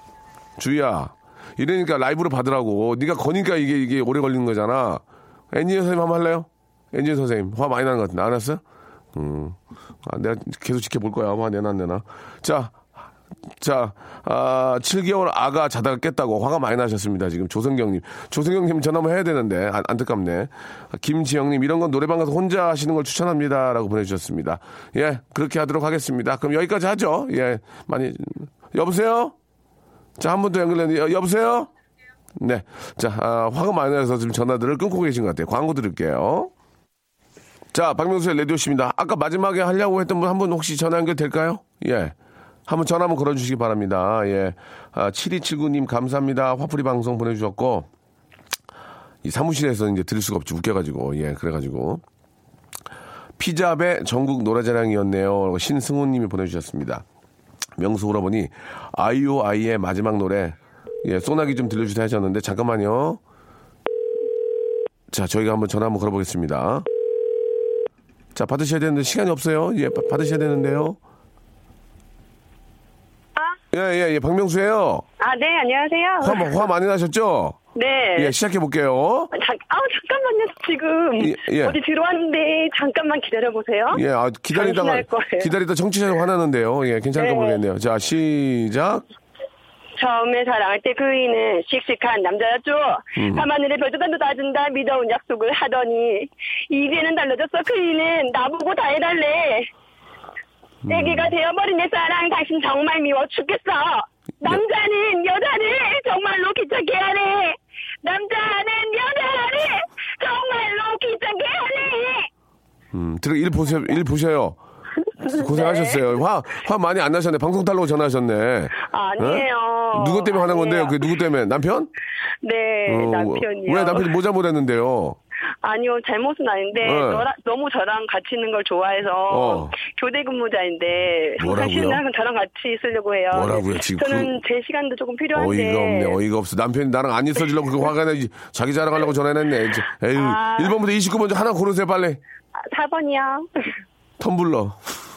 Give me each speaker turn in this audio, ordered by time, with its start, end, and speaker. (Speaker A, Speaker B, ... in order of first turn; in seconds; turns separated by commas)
Speaker A: 0.6-8.6, Speaker A: 9.1-12.9, Speaker A: 13.6-29.3, Speaker A: 30.2-31.7, Speaker A: 32.4-36.5, Speaker A: 37.7-42.1, Speaker A: 42.7-47.9, Speaker A: 49.2-52.0, Speaker A: 53.4-57.0, Speaker A: 57.8-63.2, Speaker A: 65.1-66.8, Speaker A: 68.3-71.0, Speaker A: 73.7-75.0, Speaker B: 75.2-76.5, Speaker A: 76.2-77.6, Speaker B: 77.7-78.3, Speaker A: 78.2-79.3, Speaker B: 79.3-85.5, Speaker A: 81.2-81.8, Speaker A: 83.9-89.0, Speaker B: 87.1-87.6, Speaker B: 90.0-99.7, Speaker A: 93.2-93.5, Speaker A: 100.8-101.3, Speaker B: 100.9-112.3, Speaker A: 112.9-114.6, Speaker A: 115.3-121.9, Speaker B: 115.5-116.0, Speaker B: 118.8-121.0, Speaker B: 122.4-124.1, Speaker A: 122.8-125.2, Speaker B: 125.6-136.2, Speaker A: 126.8-127.3, Speaker A: 129.3-129.7, Speaker A: 131.4-132.0, Speaker A: 133.3-134.4, Speaker A: 135.3-142.2, Speaker B: 140.1-140.8, Speaker B: 142.7-143.5, Speaker A: 144.2-144.8